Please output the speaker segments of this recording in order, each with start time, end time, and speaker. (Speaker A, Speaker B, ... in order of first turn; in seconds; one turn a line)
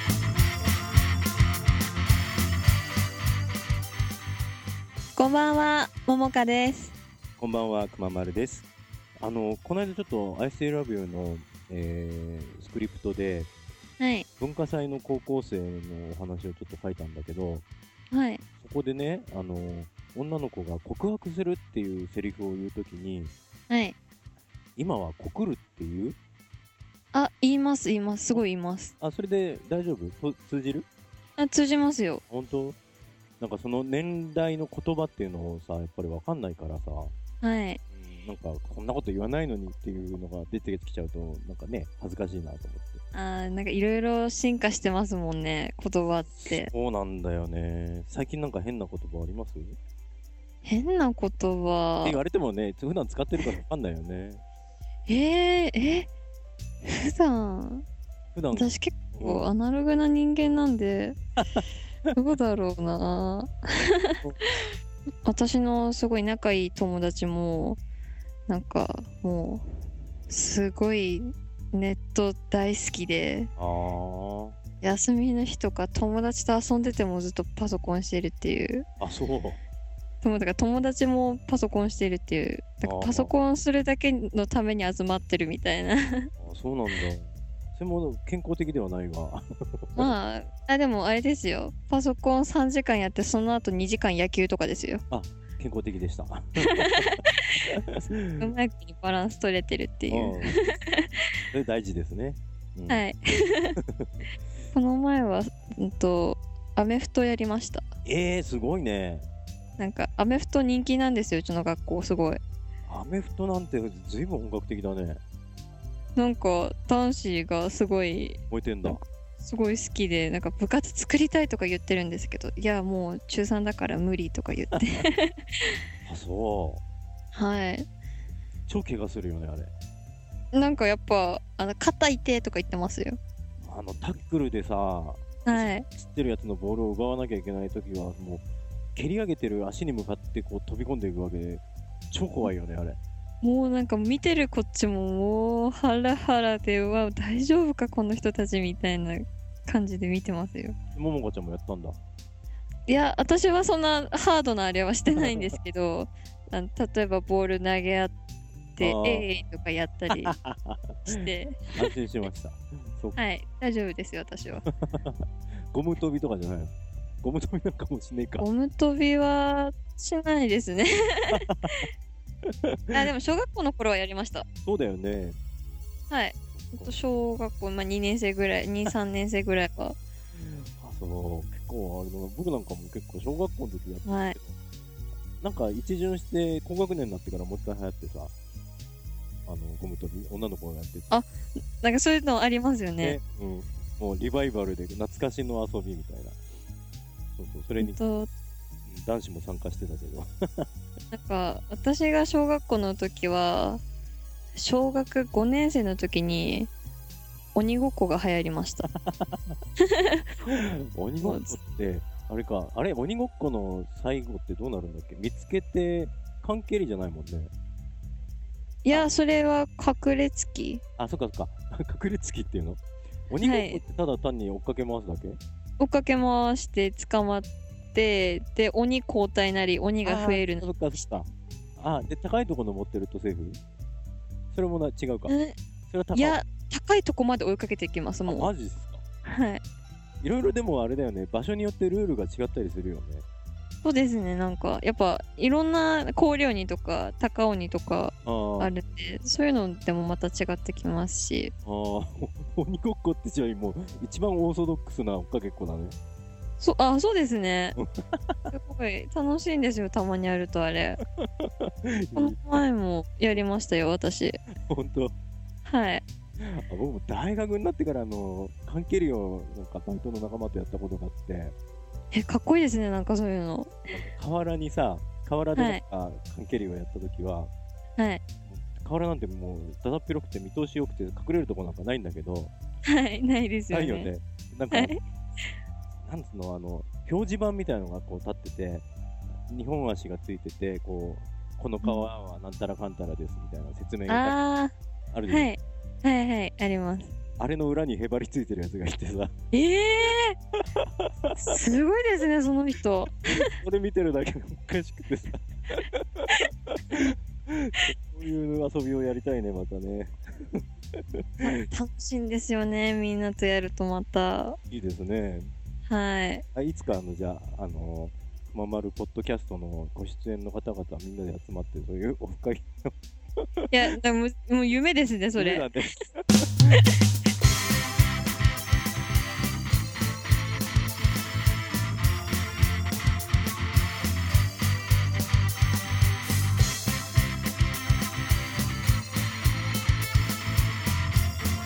Speaker A: 5.2-6.9
Speaker B: 7.4-8.7
Speaker B: 9.2-13.5
Speaker A: 14.0-14.3
Speaker B: 14.4-17.6
Speaker A: 18.1-18.4
Speaker B: 18.6-23.3
Speaker A: 23.7-23.9
Speaker B: 24.8-26.2
Speaker A: 27.1-28.9
Speaker B: 29.0-30.9
Speaker A: 31.4-32.2
Speaker B: 32.3-32.8
Speaker B: 33.4-37.1
Speaker A: 37.4-37.8
Speaker B: 37.9-43.0
Speaker A: 43.1-46.7
Speaker B: 46.4-49.8
Speaker A: 50.6-52.2
Speaker B: 52.0-54.4
Speaker A: 55.1-56.1
Speaker A: 56.8-57.8
Speaker B: 58.3-59.5
Speaker A: 58.5-61.2
Speaker A: 62.1-64.2
Speaker A: 65.2-67.8
Speaker A: 68.5-69.6
Speaker A: 70.3-73.5
Speaker B: 73.6-74.5
Speaker A: 74.8-78.8
Speaker B: 79.0-79.6
Speaker A: 80.2-86.3
Speaker B: 82.8-83.3
Speaker B: 86.4-90.1
Speaker A: 90.0-95.0
Speaker B: 95.1-98.5
Speaker A: 96.7-97.2
Speaker A: 98.4-101.1
Speaker B: 100.1-100.5
Speaker B: 101.5-103.0
Speaker A: 102.9-103.8
Speaker A: 104.7-107.8
Speaker B: 108.0-109.3
Speaker A: 109.8-112.4
Speaker B: 112.9-115.2
Speaker A: 116.2-125.3
Speaker B: 118.5-119.0
Speaker B: 126.0-126.8
Speaker A: 127.3-127.9
Speaker B: 128.7-129.7
Speaker A: 130.5-133.2
Speaker B: 133.6-138.4
Speaker A: 135.4-135.8
Speaker B: 138.9-143.0
Speaker A: 143.4-150.7
Speaker B: 150.9-152.0
Speaker A: 152.9-158.1
Speaker B: 155.1-155.5
Speaker A: 158.8-160.3
Speaker B: 158.8-159.3
Speaker B: 160.1-163.2
Speaker A: 161.1-161.9
Speaker A: 163.1-164.6
Speaker B: 164.7-165.2
Speaker B: 165.7-168.5
Speaker A: 168.4-171.4
Speaker B: 171.3-171.7
Speaker B: 172.7-173.0
Speaker A: 172.9-174.4
Speaker B: 174.6-175.4
Speaker A: 176.1-180.0
Speaker B: 176.5-176.9
Speaker B: 180.3-184.6
Speaker A: 184.0-184.4
Speaker B: 185.4-188.3
Speaker B: 189.5-191.1
Speaker A: 191.1-193.2
Speaker B: 193.0-196.4
Speaker B: 197.4-198.0
Speaker A: 197.8-198.3
Speaker B: 198.8-200.7
Speaker A: 201.1-203.8
Speaker A: 204.5-206.7
Speaker A: 207.5-208.9
Speaker B: 208.8-209.6
Speaker A: 209.9-210.2
Speaker B: 210.4-217.5
Speaker A: 211.2-211.6
Speaker A: 218.8-220.8
Speaker B: 221.0-225.4
Speaker A: 223.4-223.8
Speaker A: 225.8-230.7
Speaker B: 230.0-233.6
Speaker B: 234.5-235.3
Speaker A: 235.3-235.6
Speaker B: 235.9-236.4
Speaker A: 236.1-238.5
Speaker B: 238.3-239.0
Speaker A: 239.2-239.6
Speaker B: 240.2-243.2
Speaker A: 243.8-251.5
Speaker B: 248.2-248.7
Speaker B: 251.6-255.9
Speaker A: 256.6-257.8
Speaker B: 257.8-258.5
Speaker A: 258.5-261.0
Speaker B: 261.2-262.6
Speaker A: 262.1-264.4
Speaker B: 264.5-265.1
Speaker A: 265.6-266.0
Speaker B: 266.4-271.5
Speaker A: 272.1-273.8
Speaker B: 273.9-277.5
Speaker A: 275.5-275.8
Speaker B: 278.5-282.5
Speaker A: 282.9-284.1
Speaker B: 283.7-284.9
Speaker A: 284.7-285.4
Speaker B: 286.0-288.9
Speaker B: 289.5-294.4
Speaker A: 291.8-292.1
Speaker A: 294.1-294.7
Speaker B: 295.1-295.5
Speaker A: 295.3-297.1
Speaker B: 297.4-299.3
Speaker A: 299.5-300.3
Speaker B: 300.7-301.5
Speaker A: 301.4-303.4
Speaker B: 303.3-311.2
Speaker A: 311.4-314.6
Speaker B: 314.7-315.5
Speaker A: 315.9-316.4
Speaker B: 316.5-323.9
Speaker A: 323.7-325.7
Speaker B: 325.4-326.7